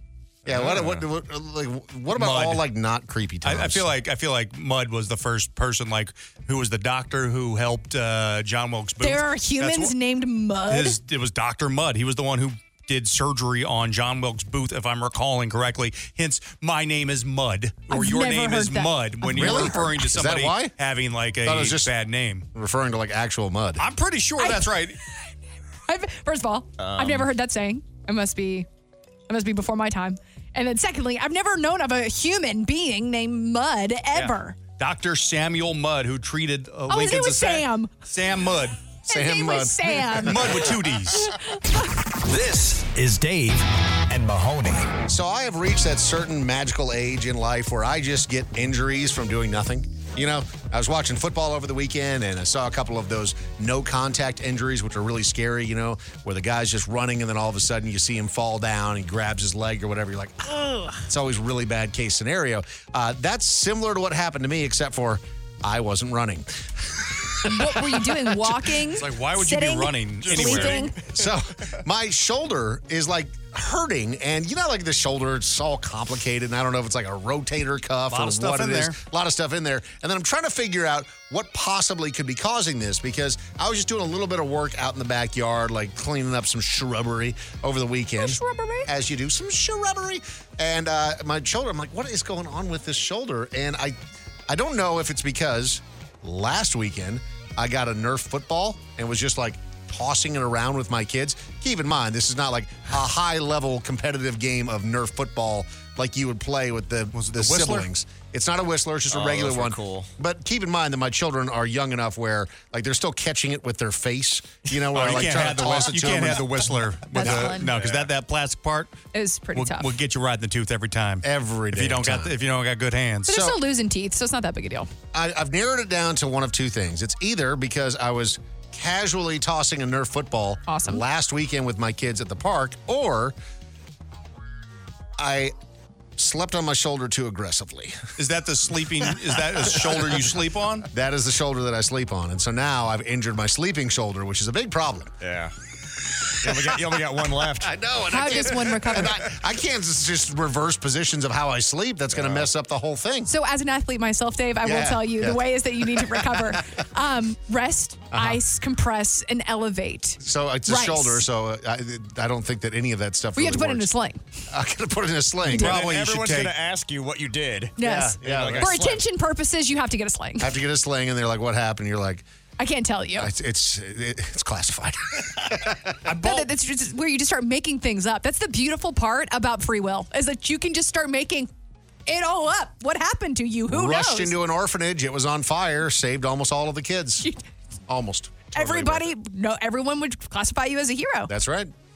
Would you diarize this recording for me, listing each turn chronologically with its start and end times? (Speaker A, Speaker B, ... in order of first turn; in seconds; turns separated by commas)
Speaker A: 0.5-1.0, Speaker B: 0.5-3.9, Speaker C: 2.1-2.6, Speaker C: 3.4-9.9, Speaker D: 9.0-11.0, Speaker C: 10.7-22.4, Speaker D: 17.9-19.9, Speaker B: 19.4-20.7, Speaker B: 21.4-21.9, Speaker B: 22.5-23.8, Speaker C: 23.8-25.0, Speaker D: 24.4-24.7, Speaker D: 25.9-28.7, Speaker A: 26.8-27.3, Speaker D: 29.3-34.6, Speaker C: 34.1-38.9, Speaker D: 36.9-37.9, Speaker B: 39.1-40.8, Speaker D: 39.1-41.4, Speaker C: 40.2-41.3, Speaker E: 42.2-44.9, Speaker B: 45.1-67.7, Speaker D: 67.5-70.9, Speaker C: 68.9-70.9, Speaker A: 70.2-70.9, Speaker B: 71.0-94.0, Speaker C: 78.1-79.0, Speaker D: 88.2-88.8, Speaker B: 94.5-116.7, Speaker C: 107.1-107.9, Speaker A: 109.1-110.1, Speaker C: 114.9-119.0, Speaker D: 117.1-117.7, Speaker A: 117.5-118.1, Speaker D: 119.1-119.9, Speaker C: 119.5-123.3, Speaker B: 121.2-122.3, Speaker D: 123.3-124.9, Speaker B: 123.3-123.5, Speaker B: 125.1-133.3, Speaker D: 130.7-131.0, Speaker B: 135.2-135.5, Speaker B: 136.2-138.0, Speaker C: 138.2-140.9, Speaker B: 139.1-140.2, Speaker B: 140.9-145.1, Speaker A: 145.2-145.5, Speaker A: 146.4-147.7, Speaker B: 146.4-153.3, Speaker D: 148.1-149.2, Speaker A: 152.1-152.5, Speaker D: 153.3-161.2, Speaker B: 154.6-156.6, Speaker B: 158.1-158.4, Speaker B: 160.2-163.9, Speaker D: 163.3-164.2, Speaker B: 164.5-165.7, Speaker C: 165.5-166.6, Speaker A: 165.6-169.0, Speaker D: 167.8-170.5, Speaker B: 167.8-168.9, Speaker B: 170.4-172.2, Speaker D: 172.6-173.3, Speaker B: 173.2-176.0, Speaker C: 176.1-176.4, Speaker D: 176.2-181.5, Speaker D: 182.1-184.3, Speaker B: 183.7-187.2, Speaker B: 187.9-189.1, Speaker D: 188.5-191.3, Speaker B: 191.3-191.7